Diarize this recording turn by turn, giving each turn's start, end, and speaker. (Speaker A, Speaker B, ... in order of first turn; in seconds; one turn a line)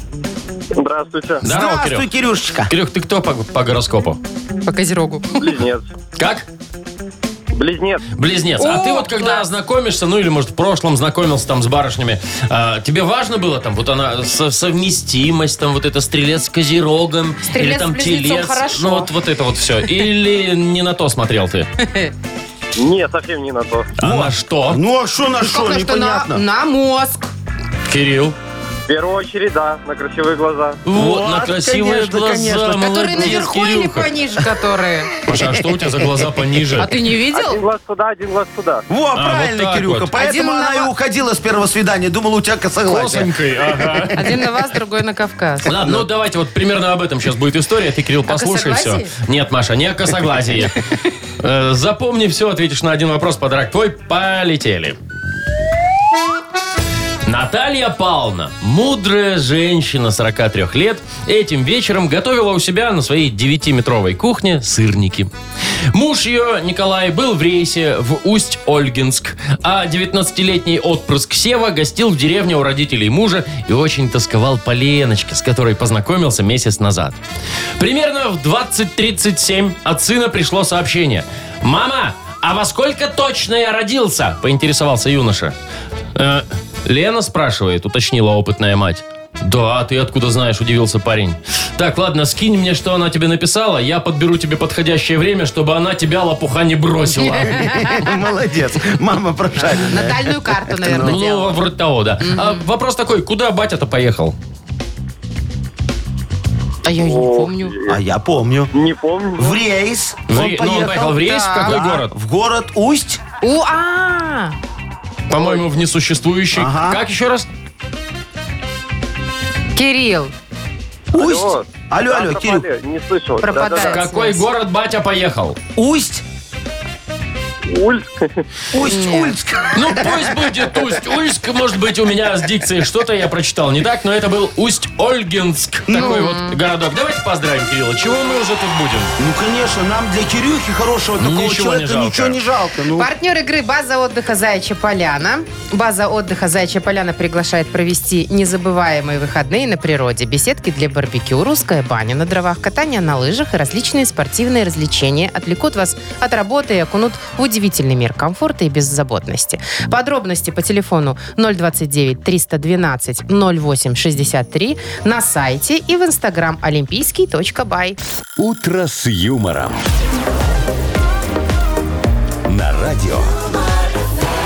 Speaker A: 0.8-1.4
Speaker B: 1.4-2.1
Speaker C: 1.4-2.7
Speaker B: 2.7-4.2
Speaker D: 4.7-5.5
Speaker A: 5.4-5.9
Speaker B: 6.2-6.5
Speaker A: 7.5-8.1
Speaker B: 8.2-21.7
Speaker D: 8.6-9.4
Speaker D: 17.5-19.1
Speaker D: 21.8-22.1
Speaker A: 22.8-23.9
Speaker B: 24.0-24.8
Speaker C: 24.0-26.4
Speaker D: 25.4-27.3
Speaker B: 27.9-28.4
Speaker A: 28.9-30.8
Speaker B: 30.9-34.1
Speaker C: 30.9-33.5
Speaker D: 32.8-35.1
Speaker B: 35.3-36.9
Speaker D: 36.8-37.6
Speaker A: 37.3-38.8
Speaker C: 38.9-44.0
Speaker B: 39.1-40.1
Speaker D: 40.2-40.9
Speaker B: 42.9-44.3
Speaker D: 44.1-45.7
Speaker B: 45.7-50.8
Speaker D: 48.3-49.1
Speaker B: 51.4-55.0
Speaker B: 57.2-65.3
Speaker B: 65.9-77.2
Speaker B: 77.8-85.5
Speaker B: 86.2-97.8
Speaker D: 97.3-98.2
Speaker C: 97.6-101.2
Speaker D: 99.6-101.6
Speaker B: 101.0-104.4
Speaker D: 102.2-102.7
Speaker D: 106.8-107.8
Speaker A: 107.0-108.0
Speaker C: 107.9-108.7
Speaker A: 108.7-109.6
Speaker C: 109.4-113.2
Speaker B: 110.3-112.1
Speaker D: 111.2-111.8
Speaker D: 113.4-114.5
Speaker B: 115.3-117.5
Speaker C: 116.5-117.0
Speaker D: 119.8-120.3
Speaker C: 121.1-122.7
Speaker A: 121.1-124.0
Speaker D: 123.4-124.5
Speaker B: 123.7-125.6
Speaker C: 125.8-126.2
Speaker A: 127.7-128.4
Speaker C: 128.7-130.3
Speaker D: 128.8-129.4
Speaker B: 129.8-139.1
Speaker C: 135.9-136.3
Speaker D: 135.9-136.6
Speaker C: 139.2-143.1
Speaker B: 141.2-142.4
Speaker D: 143.0-168.0
Speaker E: 168.4-169.8
Speaker E: 172.5-173.4